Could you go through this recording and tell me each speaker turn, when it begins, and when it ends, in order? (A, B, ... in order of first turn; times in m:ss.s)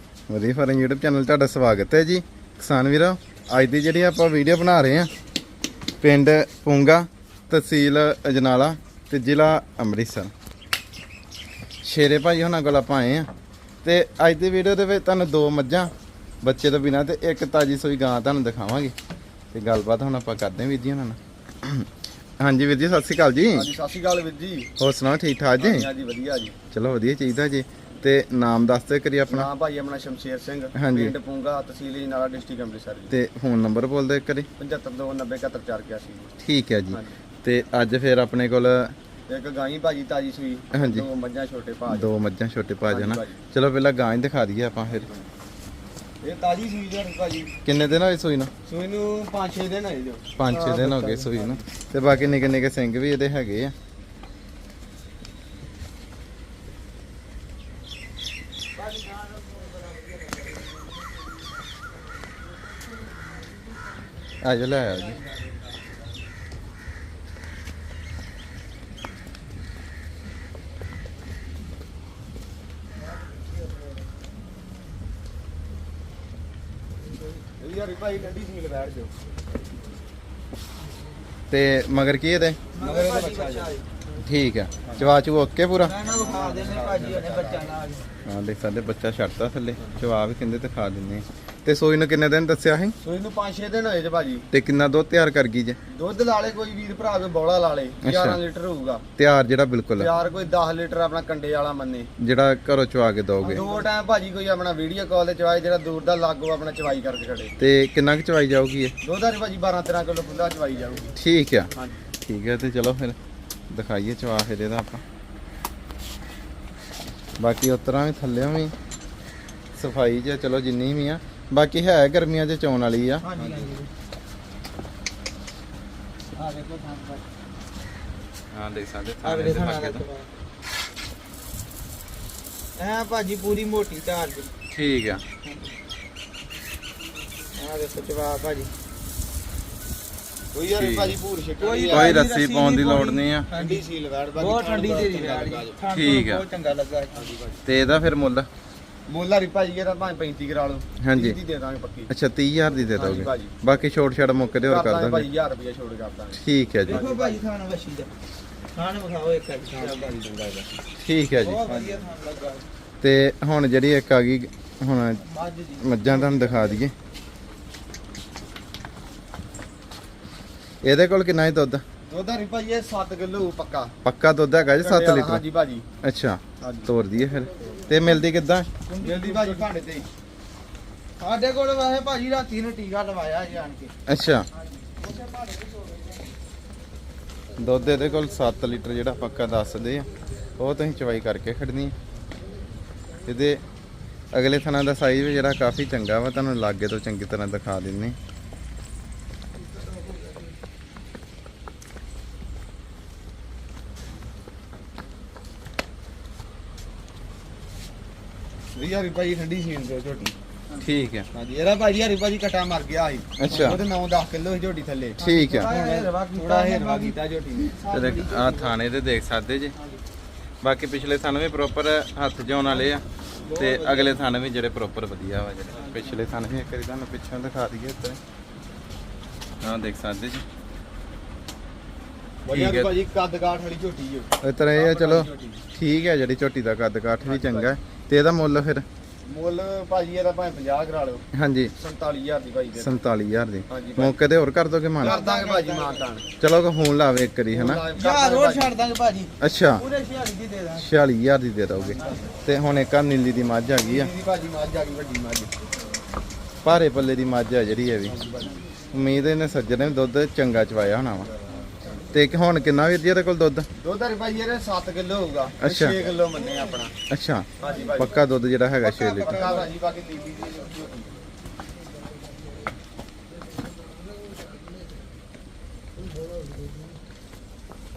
0:00.3-0:05.1 A
0:06.0-0:10.3 A
0:11.8-0:13.3 A
0:13.8-0:18.9 A
0:19.5-0:21.9 A
0:22.4-0:23.7 A
0:23.5-0:24.7 B
0:24.8-0:25.9 A
0:25.6-0:26.6 B
0:26.7-0:29.5 A
0:29.3-0:33.1 B
0:30.8-0:31.1 A
0:33.1-0:34.5 A
0:34.6-0:36.3 B
0:36.4-0:39.0 A
0:39.3-0:42.1 B
0:40.7-0:41.1 A
0:41.9-0:45.1 A
0:42.9-0:43.4 B
0:46.2-0:47.5 B
0:47.6-0:48.5 A
0:48.6-0:50.3 B
0:50.4-0:53.7 A
0:50.5-0:51.2 C
0:51.2-0:51.6 B
0:58.8-1:00.3 C
1:04.4-1:05.2 A
1:17.6-1:19.1 B
1:21.5-1:22.6 A
1:22.7-1:23.8 B
1:22.7-1:23.8 C
1:24.2-1:26.0 A
1:24.8-1:25.1 B
1:25.8-1:28.0 C
1:26.0-1:27.7 B
1:28.2-1:33.0 A
1:33.0-1:34.5 B
1:34.5-1:35.8 A
1:35.9-1:39.0 B
1:38.0-1:38.4 A
1:39.2-1:40.1 A
1:40.0-1:42.1 B
1:42.2-1:43.6 A
1:43.4-1:47.6 B
1:47.6-1:48.9 A
1:49.0-1:51.2 B
1:51.1-1:51.7 A
1:51.7-1:52.0 B
1:52.2-1:53.2 A
1:53.7-1:55.0 A
1:57.4-1:58.7 A
1:59.8-2:03.2 A
2:03.2-2:03.9 C
2:03.3-2:03.7 B
2:06.3-2:07.2 C
2:08.5-2:10.0 A
2:09.2-2:10.3 C
2:12.8-2:14.5 C
2:14.7-2:15.2 A
2:17.6-2:18.7 C
2:20.5-2:22.2 B
2:20.7-2:21.2 A
2:21.6-2:23.8 C
2:21.9-2:23.5 A
2:23.5-2:25.8 B
2:24.4-2:27.2 C
2:25.9-2:26.4 A
2:27.1-2:27.6 B
2:27.6-2:28.5 A
2:29.1-2:32.1 B
2:31.0-2:31.4 A
2:32.1-2:35.3 A
2:32.9-2:33.6 B
2:34.6-2:37.4 B
2:36.3-2:37.0 A
2:36.8-2:38.1 C
2:38.7-2:40.0 C
2:39.7-2:40.8 B
2:41.0-2:41.7 A
2:41.4-2:42.6 C
2:41.6-2:42.1 B
2:43.0-2:45.2 A
2:45.2-2:46.6 C
2:45.8-2:46.9 A
2:50.8-2:51.8 A
2:52.1-2:53.9 B
2:54.0-2:55.4 A
2:54.8-2:55.9 B
2:56.0-2:58.7 A
2:56.6-2:56.9 B
2:58.9-2:59.7 C
2:59.0-3:00.1 B
3:01.2-3:03.9 C
3:04.1-3:04.5 A
3:04.5-3:06.3 C
3:07.6-3:12.0 A
3:13.3-3:13.6 A
3:14.3-3:18.2 A
3:28.8-3:30.3 B
3:30.8-3:31.3 A
3:31.3-3:37.8 B
3:33.4-3:33.8 A
3:35.2-3:35.7 A
3:35.2-3:38.8 C
3:37.9-3:39.8 A
3:39.8-3:40.0 C
3:40.6-3:43.0 A
3:43.4-3:44.2 B
3:43.6-3:48.2 A
3:45.7-3:46.2 C
3:49.6-3:50.4 A
3:52.5-3:55.6 B
3:52.5-3:52.9 A
3:54.4-3:58.8 A
3:57.2-3:57.7 B
3:59.2-4:01.2 B
4:01.3-4:01.7 A
4:01.8-4:02.9 B
4:02.8-4:05.2 A
4:03.7-4:04.2 B
4:05.0-4:06.3 B
4:05.0-4:06.1 C
4:06.4-4:07.8 A
4:07.5-4:08.7 B
4:08.0-4:10.9 C
4:09.4-4:09.8 A
4:10.8-4:14.1 A
4:11.8-4:12.3 B
4:13.8-4:15.5 B
4:16.6-4:18.1 A
4:18.0-4:18.6 B
4:18.9-4:21.3 A
4:21.4-4:21.7 B
4:22.1-4:23.7 A
4:23.8-4:26.9 B
4:25.6-4:26.0 A
4:27.1-4:29.6 A
4:27.6-4:28.2 B
4:28.8-4:29.7 C
4:29.2-4:31.1 B